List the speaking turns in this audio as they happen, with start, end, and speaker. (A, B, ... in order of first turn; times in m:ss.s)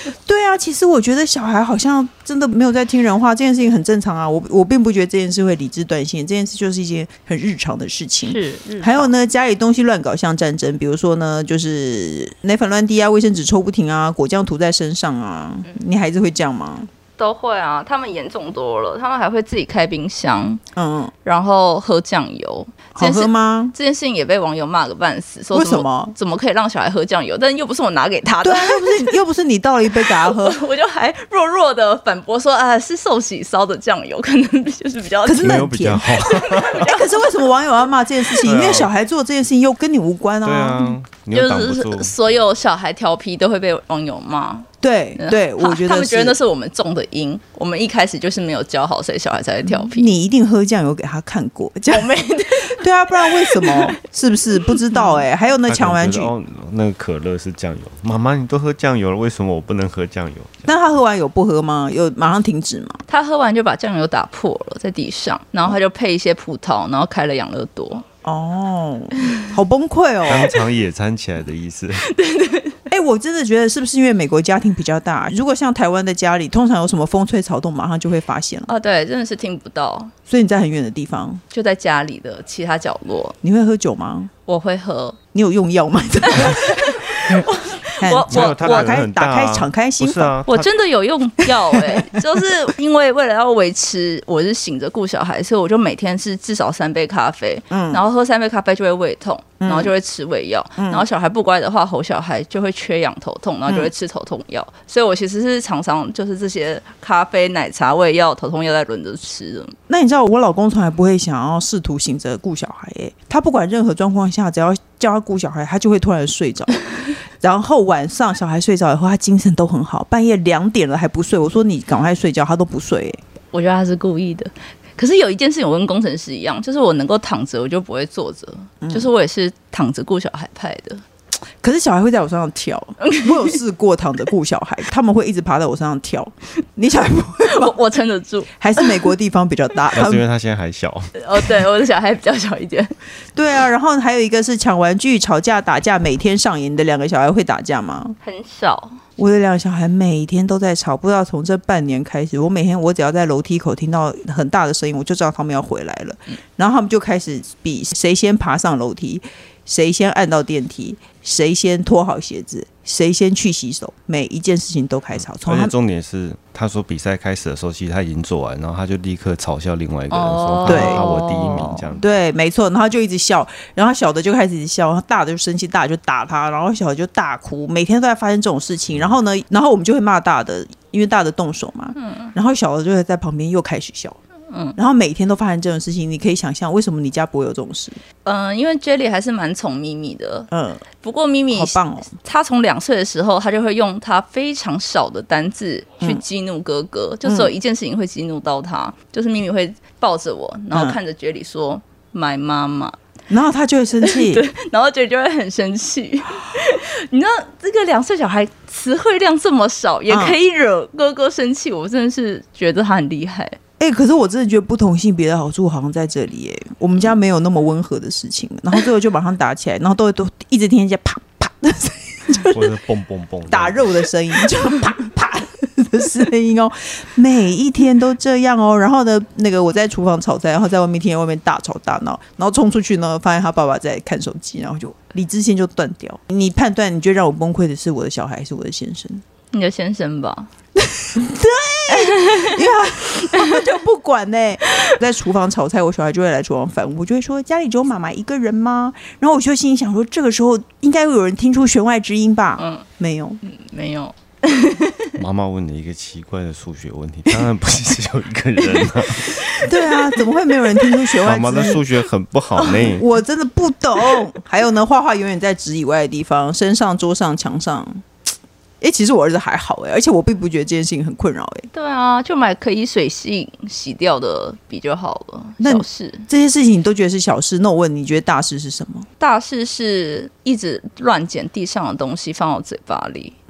0:00.2-0:16.9 A
0:08.2-0:09.1 B
0:17.2-0:20.6 B
0:20.8-0:21.1 A
0:21.2-0:29.1 B
0:23.0-0:23.7 A
0:25.5-0:26.1 A
0:28.4-0:30.6 A
0:30.0-0:37.4 B
0:35.2-0:36.1 A
0:35.4-0:36.9 C
0:36.7-0:40.9 A
0:38.4-0:38.9 C
0:40.4-0:42.1 C
0:41.3-0:50.1 B
0:44.8-0:46.3 A
0:49.6-0:56.3 A
0:51.9-0:54.0 B
0:54.6-0:55.2 B
0:55.7-1:00.7 C
1:00.6-1:03.0 A
1:03.1-1:08.0 B
1:08.2-1:10.5 A
1:10.2-1:12.1 C
1:12.0-1:12.8 B
1:12.9-1:18.7 A
1:18.7-1:20.1 B
1:20.3-1:21.4 A
1:21.5-1:23.4 B
1:23.4-1:24.3 A
1:24.5-1:25.2 B
1:25.3-1:27.4 A
1:26.3-1:29.0 B
1:28.0-1:30.4 A
1:28.3-1:30.7 C
1:30.5-1:49.8 B
1:31.7-1:32.2 A
1:37.7-1:38.0 A
1:39.6-1:39.9 A
1:40.8-1:41.0 A
1:49.9-1:56.8 A
1:57.4-2:03.2 A
2:03.5-2:11.0 B
2:08.8-2:09.1 A
2:11.6-2:17.8 A
2:13.0-2:13.6 B
2:17.4-2:19.1 B
2:18.6-2:20.2 A
2:19.9-2:21.5 C
2:21.2-2:22.9 B
2:23.4-2:28.2 A
2:28.2-2:29.0 B
2:29.2-2:45.7 A
2:45.4-2:52.1 C
2:50.1-2:51.9 B
2:50.6-2:51.0 A
2:52.0-3:04.2 A
3:02.0-3:02.3 B
3:04.5-3:04.8 B
3:04.8-3:08.0 A
3:08.2-3:23.0 B
3:10.5-3:10.8 A
3:11.5-3:12.1 A
3:17.2-3:17.5 A
3:20.7-3:21.0 A
3:23.3-3:24.4 A
3:24.0-3:33.6 B
3:30.1-3:30.4 A
3:33.8-3:42.7 A
3:42.5-3:44.1 C
3:43.5-3:59.2 A
3:59.5-4:00.5 B
4:00.9-4:13.4 A
4:01.9-4:02.6 B
4:03.3-4:03.6 B
4:12.6-4:12.8 B
4:13.4-4:15.2 B
4:15.2-4:19.5 C
4:18.6-4:20.3 B
4:19.6-4:21.8 A
4:21.2-4:23.0 C
4:22.6-4:23.0 B
4:22.9-4:28.0 A
4:28.8-4:31.7 A
4:31.7-4:36.3 B
4:35.6-4:39.1 A
4:39.2-4:43.3 B